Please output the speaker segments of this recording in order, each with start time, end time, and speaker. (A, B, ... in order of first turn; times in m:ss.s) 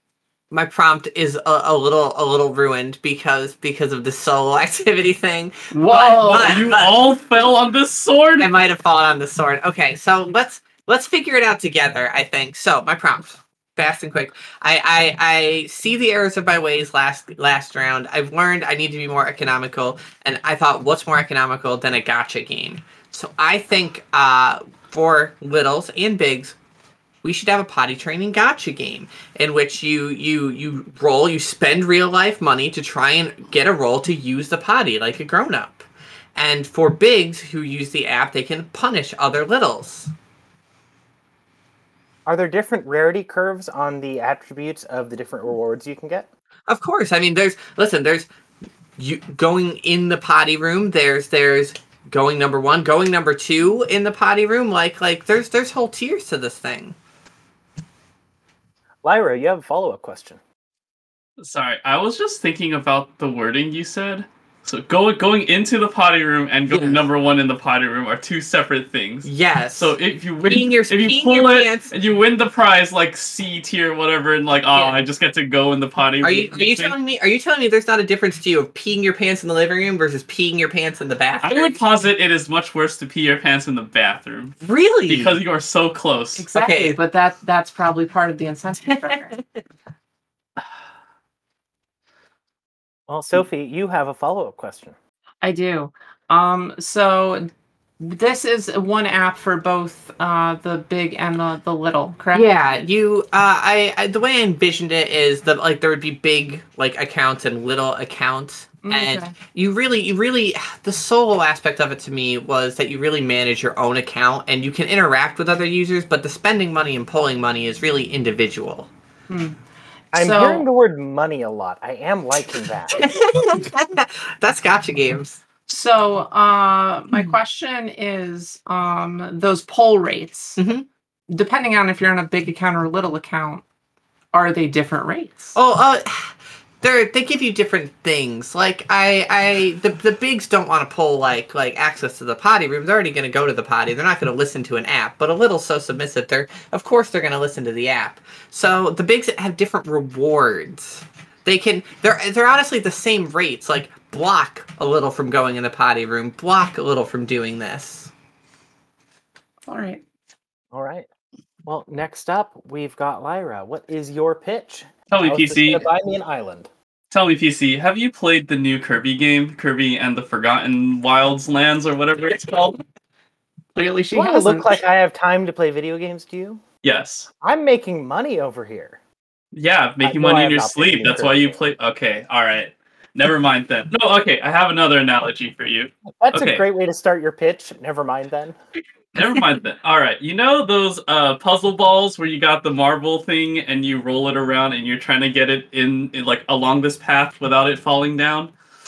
0:00.5-0:07.0 A
0:05.7-0:06.7 B
0:06.3-0:08.5 C
0:08.4-0:26.6 A
0:27.2-0:40.1 A
0:42.3-0:46.3 D
0:46.7-0:48.3 A
0:49.0-0:57.0 A
0:59.0-1:00.4 D
1:01.4-1:17.0 C
1:06.7-1:07.0 A
1:09.2-1:11.9 A
1:14.7-1:15.0 A
1:16.2-1:21.8 A
1:21.4-1:26.5 C
1:24.6-1:25.4 A
1:26.4-1:29.3 B
1:26.6-1:27.0 A
1:33.1-1:35.0 D
1:35.4-1:42.5 B
1:42.3-1:58.9 A
1:48.8-1:49.3 B
1:59.3-1:59.6 B
2:00.1-2:00.7 B
2:00.1-2:03.0 D
2:02.9-2:05.4 A
2:05.7-2:10.6 B
2:10.6-2:10.9 A
2:11.3-2:13.6 B
2:14.3-2:15.6 B
2:15.6-2:38.1 A
2:39.7-2:40.0 B
2:40.7-2:41.1 D
2:41.7-2:46.7 D
2:45.1-2:45.9 C
2:47.1-2:52.8 C
2:53.8-2:54.7 B
2:54.1-2:56.6 D
2:56.8-2:57.3 C
2:57.4-2:59.0 D
2:59.5-3:06.6 C
3:00.0-3:01.6 D
3:06.2-3:08.6 D
3:09.2-3:18.5 C